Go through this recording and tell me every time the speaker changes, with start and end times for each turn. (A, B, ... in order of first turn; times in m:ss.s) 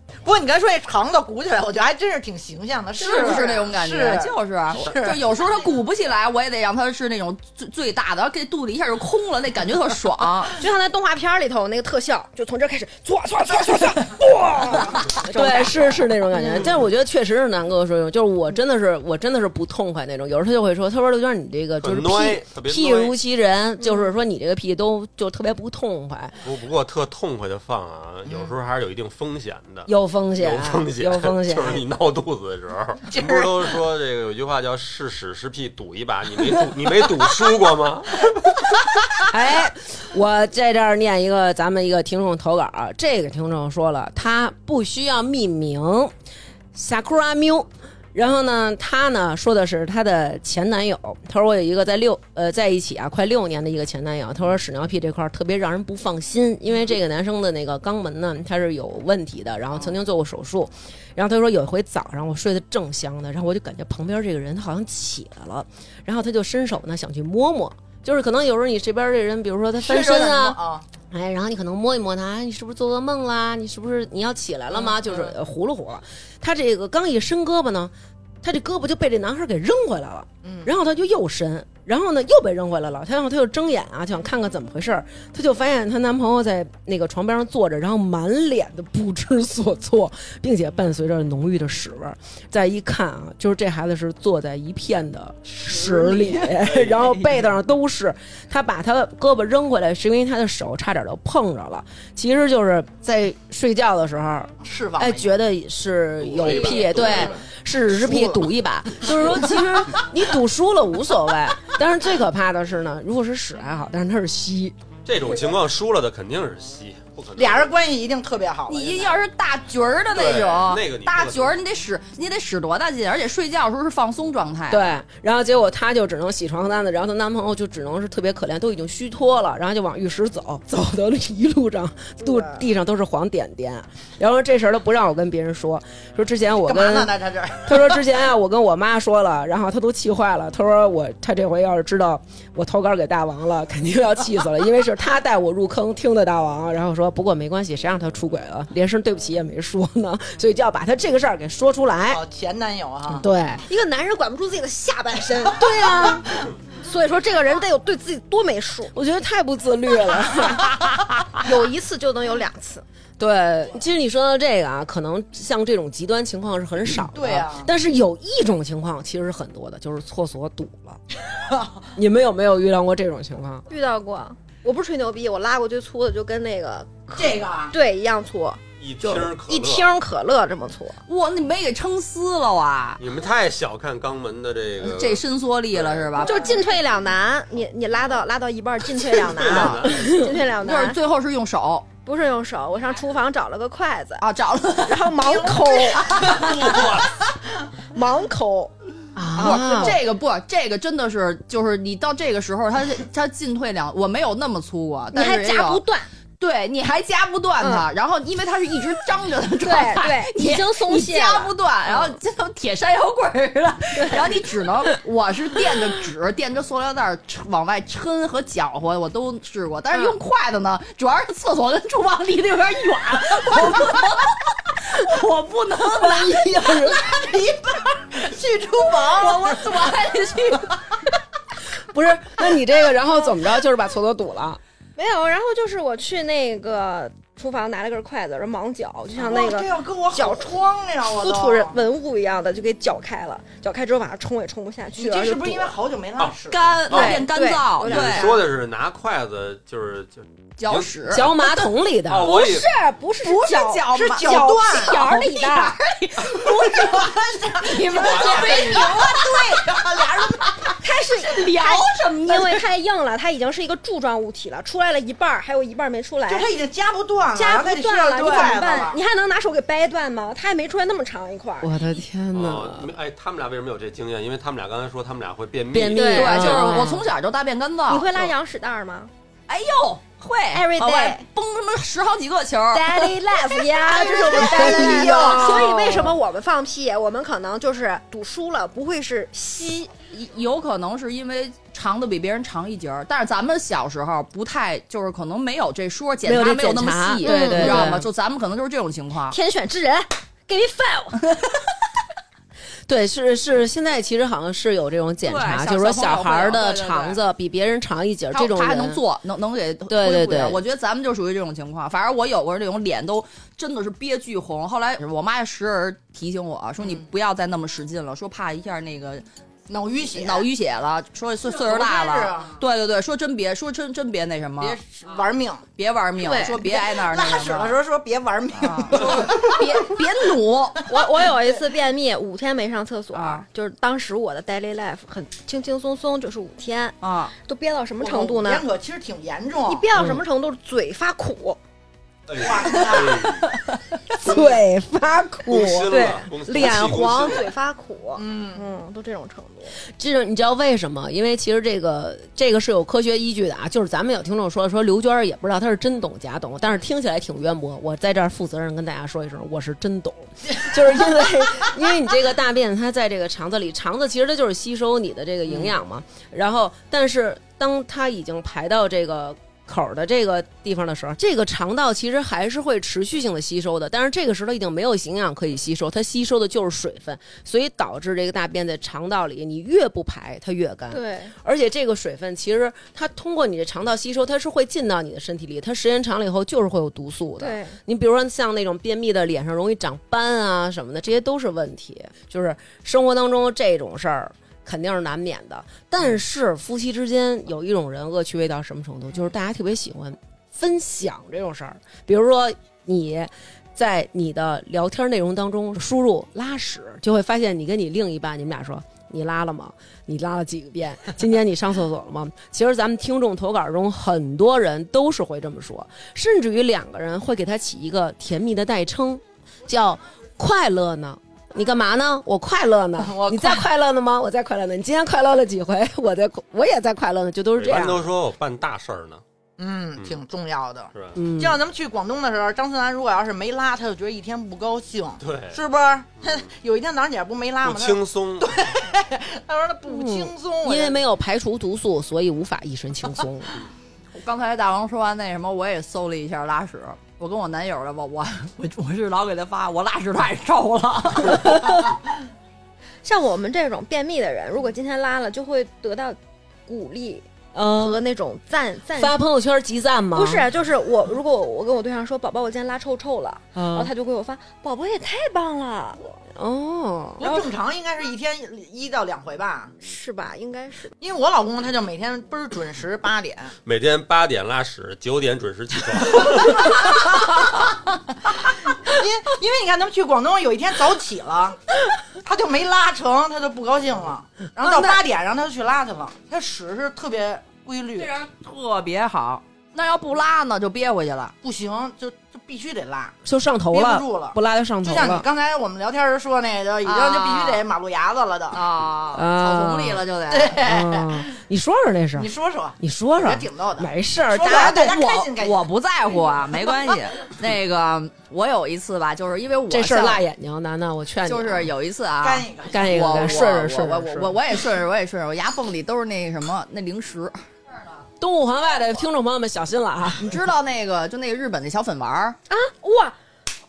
0:00.2-0:05.2 A
0:03.0-0:10.5 B
0:10.6-0:16.6 C
0:15.3-0:26.4 D
0:21.8-0:23.2 E
0:26.4-0:38.5 E
0:29.9-0:31.8 D
0:33.1-0:33.5 A
0:39.3-0:46.1 D
0:46.7-1:10.6 D
1:09.8-1:10.8 A
1:11.1-1:54.8 D
1:14.8-1:15.3 A
1:20.4-1:20.7 A
1:44.6-1:45.3 A
1:46.3-1:47.4 E
1:55.1-1:57.7 E
1:57.4-1:59.2 A
1:58.7-2:04.9 B
2:00.1-2:01.6 E
2:04.7-2:17.1 D
2:12.2-2:12.6 C
2:16.7-2:18.0 A
2:17.6-2:32.2 D
2:32.1-2:33.2 A
2:33.1-2:33.6 D
2:33.7-2:35.9 C
2:35.6-2:36.3 D
2:36.8-2:38.9 C
2:38.9-2:40.8 D
2:41.3-2:42.8 C
2:43.2-2:51.0 D
2:47.0-2:47.7 A
2:51.5-2:51.8 A
2:52.0-2:53.6 D
2:53.7-3:01.0 C
2:57.2-2:57.7 A
2:58.8-2:59.9 E
3:01.1-3:03.0 B
3:03.0-3:06.2 E
3:04.8-3:06.4 B
3:06.2-3:11.0 C
3:09.2-3:10.0 E
3:09.5-3:09.8 B
3:09.9-3:10.3 D
3:10.6-3:11.9 B
3:12.0-3:14.3 C
3:14.2-3:16.5 B
3:14.9-3:16.7 C
3:16.2-3:17.2 E
3:17.9-3:18.7 C
3:19.2-3:20.0 D
3:19.4-3:20.0 C
3:19.4-3:25.8 B
3:25.1-3:26.1 C
3:26.4-3:46.7 B
3:27.6-3:27.9 C
3:29.6-3:32.2 C
3:34.0-3:34.4 C
3:46.0-3:47.0 D
3:46.7-3:49.7 A
3:49.1-3:50.8 B
3:51.9-3:54.6 D
3:55.0-4:00.6 C
3:59.2-4:01.8 A
4:01.1-4:05.8 C
4:05.0-4:06.8 A
4:06.5-4:08.3 B
4:06.9-4:07.2 E
4:06.9-4:08.4 C
4:07.8-4:11.3 E
4:10.6-4:11.3 B
4:11.1-4:12.3 D
4:12.1-4:12.7 E
4:12.2-4:15.8 C
4:13.2-4:19.8 B
4:13.9-4:15.0 A
4:16.4-4:20.6 A
4:17.9-4:18.8 E
4:20.4-4:22.6 B
4:20.8-4:26.5 C
4:26.3-4:29.0 A
4:27.4-4:31.9 C
4:31.6-4:32.9 D
4:32.3-4:36.5 E
4:35.7-4:37.1 D
4:35.9-4:36.9 C
4:36.1-4:38.1 B
4:37.9-4:39.1 C
4:39.5-4:43.1 B
4:40.5-4:41.2 C
4:42.7-4:49.9 C
4:44.0-4:45.6 A
4:44.4-4:46.2 D
4:50.1-4:59.4 B
4:56.2-4:58.1 D
4:57.2-4:58.0 C
4:59.3-5:01.5 C
5:02.9-5:09.0 D
5:05.2-5:07.2 B
5:08.3-5:19.3 B
5:09.9-5:10.6 D
5:19.7-5:20.5 A
5:20.1-5:24.8 B
5:21.4-5:22.6 A
5:24.6-5:25.6 A
5:25.8-5:27.8 B
5:26.2-5:26.6 C
5:26.7-5:29.9 A
5:28.6-5:30.9 B
5:30.9-5:38.7 C
5:33.1-5:33.4 B
5:37.0-5:37.3 B
5:38.0-5:39.9 A
5:39.7-5:41.6 C
5:40.0-5:40.2 D
5:42.3-5:43.5 E
5:42.4-5:43.4 A
5:44.2-5:46.1 D
5:45.5-5:47.5 E
5:45.9-5:49.8 C
5:48.2-5:48.6 A
5:50.0-7:08.1 D
6:20.9-6:21.3 C
6:27.4-6:27.8 C
7:03.0-7:03.6 A
7:07.6-7:09.2 E
7:09.6-7:21.0 A
7:11.2-7:11.6 D
7:15.2-7:15.6 E
7:17.6-7:18.5 E
7:19.9-7:23.6 D
7:24.1-7:31.8 B
7:33.0-7:39.2 C
7:37.6-7:38.0 D
7:38.9-7:40.4 D
7:40.1-7:46.1 C
7:43.6-7:43.9 D
7:46.4-7:47.5 D
7:47.2-7:49.7 A
7:49.8-7:50.9 C
7:51.0-7:53.5 A
7:53.6-7:57.0 E
7:58.8-8:01.6 A
8:02.2-8:08.1 A
8:04.6-8:05.0 D
8:08.0-8:11.4 B
8:11.4-8:13.2 A
8:13.2-8:15.3 D
8:13.7-8:18.6 A
8:16.8-8:17.6 B
8:18.5-8:20.6 B
8:19.1-8:20.0 D
8:20.3-8:21.3 A
8:20.6-8:25.3 D
8:22.2-8:25.7 A
8:25.2-8:30.2 B
8:29.7-8:31.7 D
8:31.3-8:37.4 B
8:32.2-8:33.2 A
8:32.7-8:34.4 D
8:38.2-8:40.4 D
8:40.2-8:42.4 B
8:42.5-8:43.2 C